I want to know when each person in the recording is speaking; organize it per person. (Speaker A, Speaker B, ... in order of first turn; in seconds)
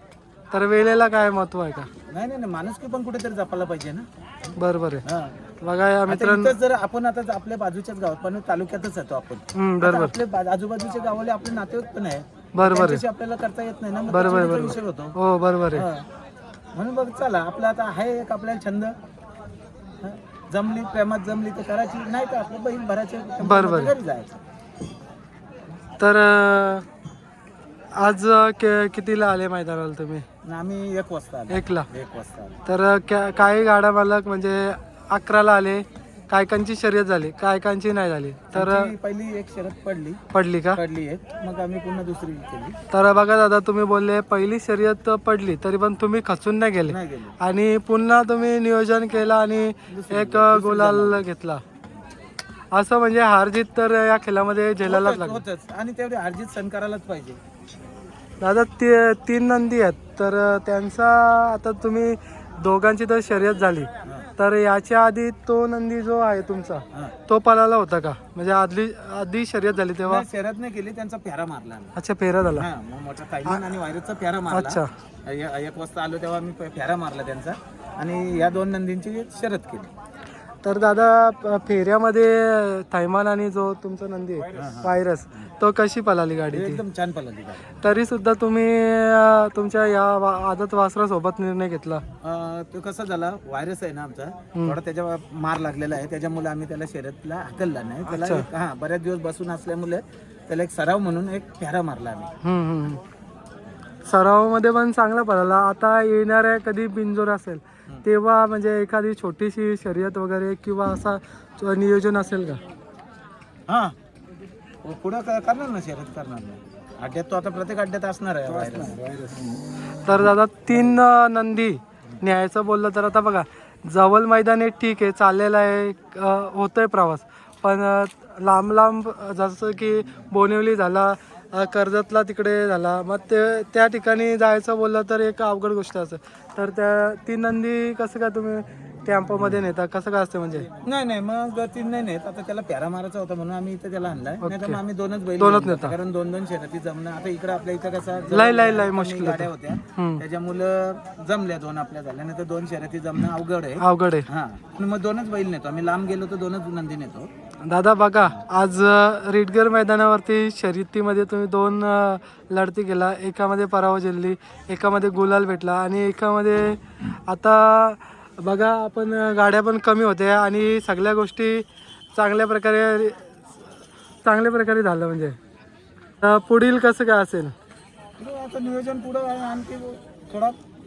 Speaker A: 0.5-1.9, 4.6-5.0, 5.6-6.5, 9.5-10.2, 12.6-13.0, 14.1-15.9, 23.4-23.9, 26.0-26.9, 27.9-30.3, 31.5-31.9, 32.7-38.9, 40.3-40.8, 42.9-51.6, 52.7-55.4, 58.4-70.2, 72.0-72.7, 74.5-74.9, 80.6-86.8, 87.8-92.0, 98.1-98.5, 102.4-103.0, 104.0-112.6, 120.0-140.7, 144.4-144.8, 145.4-145.9, 148.3-150.2, 153.8-154.3, 157.6-173.3, 174.2-175.4, 176.2-177.5
Speaker B: 2.1-4.1, 5.0-5.4, 6.1-15.2, 15.7-16.1, 16.7-19.0, 20.0-24.4, 30.4-32.6, 38.5-40.2, 40.7-42.8, 46.9-47.4, 49.9-51.3, 54.8-57.4, 64.0-64.3, 70.0-71.9, 72.5-79.9, 84.5-85.5, 86.5-87.7, 92.2-102.3, 113.7-114.0, 114.8-119.3, 140.8-157.3, 178.2-180.6